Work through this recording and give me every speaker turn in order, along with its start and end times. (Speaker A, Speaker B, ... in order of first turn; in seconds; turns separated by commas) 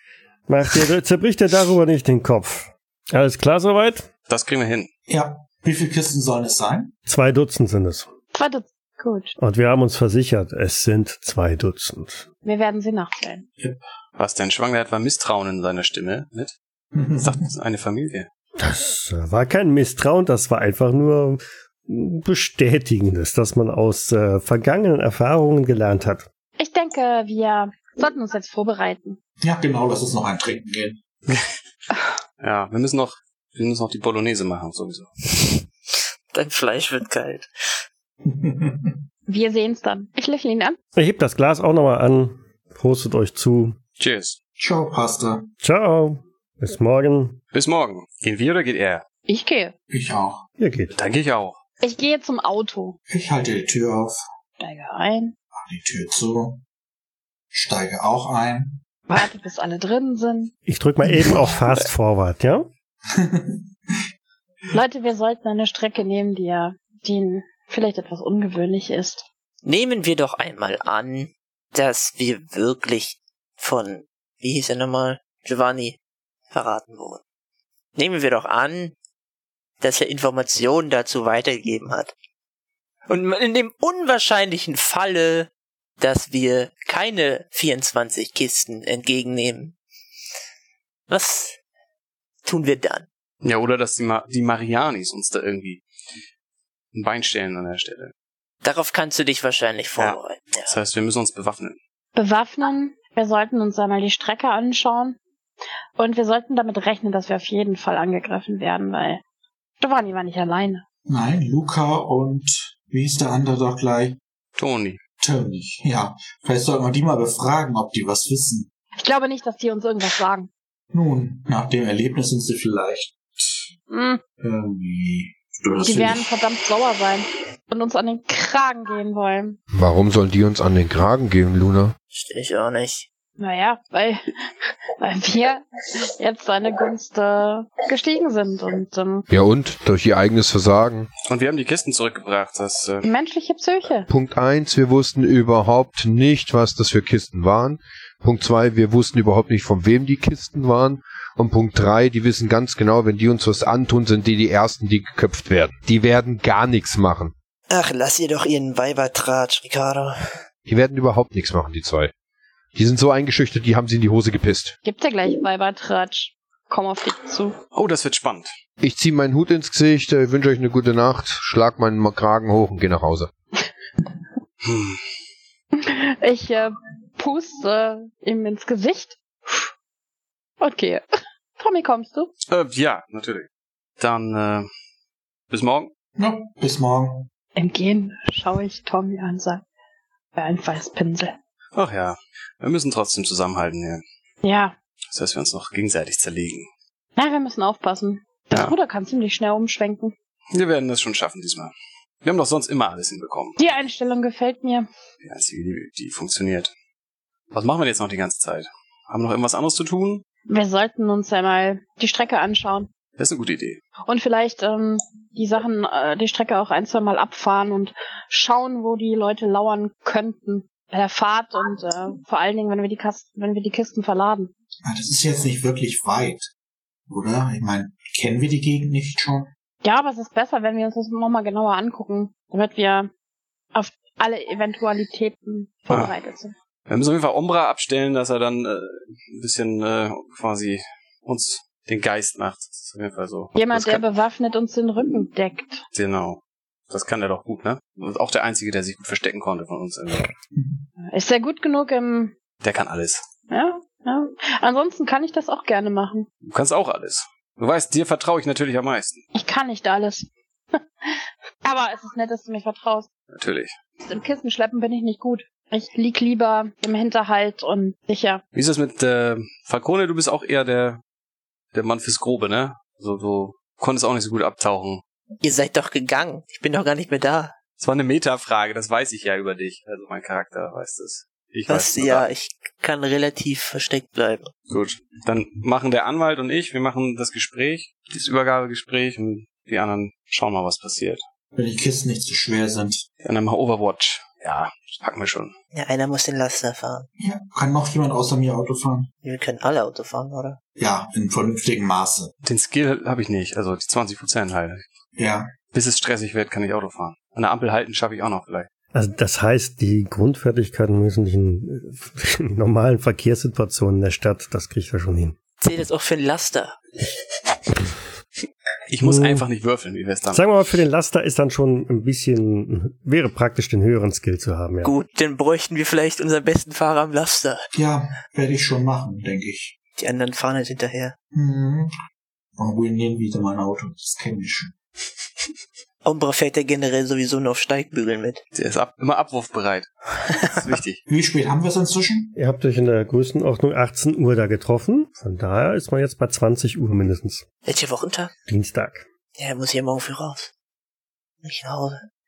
Speaker A: 0.5-4.1, Speaker B: 4.3-4.9, Speaker C: 5.1-6.9, Speaker A: 7.1-8.1, Speaker D: 8.3-9.4, Speaker A: 9.4-12.3, Speaker D: 12.4-13.5, Speaker B: 14.2-16.6, Speaker C: 16.9-17.4, Speaker B: 17.2-18.3, Speaker A: 18.6-26.3, Speaker D: 26.6-29.2, Speaker C: 29.4-31.0, Speaker B: 32.4-35.1, Speaker E: 36.3-37.5, Speaker C: 38.2-39.0, Speaker D: 39.3-40.8, Speaker A: 40.9-43.8, Speaker B: 44.0-44.4, Speaker C: 44.6-45.5, Speaker A: 45.6-47.4, Speaker B: 47.5-49.0, Speaker D: 49.3-49.7, Speaker C: 49.9-50.4, Speaker A: 50.6-50.9, Speaker B: 50.9-51.6, Speaker D: 51.8-53.0, Speaker C: 53.1-54.2, Speaker D: 54.6-55.3, Speaker C: 55.6-56.6, Speaker C: 57.5-58.8, Speaker D: 59.1-60.5, Speaker A: 60.7-62.7, Speaker C: 63.1-64.0, Speaker D: 64.7-69.2, Speaker E: 69.7-76.0, Speaker E: 76.5-77.2, Speaker E: 78.0-79.0, Speaker E: 79.8-82.1, Speaker E: 83.1-89.8, Speaker E: 91.1-91.6, Speaker E: 92.5-93.1, Speaker B: 93.4-95.8, Speaker B: 96.9-98.1, Speaker E: 98.6-100.7, Speaker B: 100.0-101.8, Speaker D: 102.2-105.2, Speaker D: 106.0-109.2, Speaker D: 109.8-110.8, Speaker C: 111.1-114.2, Speaker B: 114.6-115.0, Speaker C: 115.2-118.7, Speaker D: 119.0-120.5, Speaker C: 120.9-123.7, Speaker D: 123.9-124.2, Speaker C: 124.4-126.3, Speaker D: 125.8-129.6, Speaker F: 129.7-131.9, Speaker E: 132.1-133.1, Speaker D: 133.4-139.3, Speaker F: 139.3-141.1, Speaker B: 141.3-143.1, Speaker D: 143.0-144.1, Speaker F: 144.1-157.3, Speaker E: 157.7-160.3, Speaker F: 160.7-162.1, Speaker F: 162.7-164.8, Speaker D: 164.8-167.6, Speaker B: 167.7-168.5, Speaker F: 168.8-173.3, Speaker B: 174.6-175.0, Speaker D: 175.8-179.7, Speaker D: 180.6-181.0, Speaker D: 181.6-182.3, Speaker B: 182.5-183.5, Speaker B: 184.0-184.7, Speaker B: 185.5-185.9, Speaker C: 186.2-187.3, Speaker D: 187.6-189.6, Speaker D: 190.3-191.3, Speaker B: 191.8-194.0, Speaker D: 194.4-194.8, Speaker B: 195.1-196.7, Speaker D: 197.2-200.1, Speaker B: 200.5-203.6, Speaker D: 203.6-204.9, Speaker B: 205.2-206.7, Speaker B: 207.5-210.2, Speaker D: 210.5-212.9, Speaker B: 213.2-213.8, Speaker D: 214.1-224.5, Speaker C: 224.8-226.5, Speaker C: 227.1-229.5, Speaker D: 229.8-233.1, Speaker D: 233.7-236.5, Speaker B: 236.9-244.0, Speaker D: 243.6-245.8, Speaker B: 245.9-250.3, Speaker C: 250.6-250.8, Speaker D: 251.0-252.3, Speaker B: 252.6-253.2, Speaker D: 253.5-256.3, Speaker B: 256.4-259.2, Speaker D: 259.3-263.1, Speaker B: 263.3-263.7, Speaker D: 264.1-268.4, Speaker B: 268.5-271.0, Speaker B: 271.7-275.0, Speaker E: 275.4-277.5, Speaker B: 277.8-282.3, Speaker E: 281.7-284.5, Speaker B: 284.7-291.2, Speaker C: 291.6-293.1, Speaker B: 293.2-295.5, Speaker E: 295.7-297.1, Speaker C: 297.2-299.1, Speaker E: 299.2-300.6, Speaker C: 300.8-302.3, Speaker B: 302.4-304.8, Speaker C: 305.2-305.5, Speaker B: 305.7-308.7, Speaker A: 308.9-315.4, Speaker E: 315.6-316.8, Speaker B: 318.9-320.4, Speaker A: 319.0-319.4, Speaker A: 320.3-324.9, Speaker E: 324.8-327.7, Speaker C: 327.7-329.8, Speaker E: 330.0-331.1, Speaker C: 331.3-331.9, Speaker C: 332.6-334.8, Speaker E: 336.0-338.4, Speaker B: 338.5-341.0, Speaker C: 341.1-342.3, Speaker A: 342.4-347.4, Speaker E: 347.6-348.3, Speaker A: 348.5-349.1, Speaker E: 349.4-350.5, Speaker E: 351.4-352.0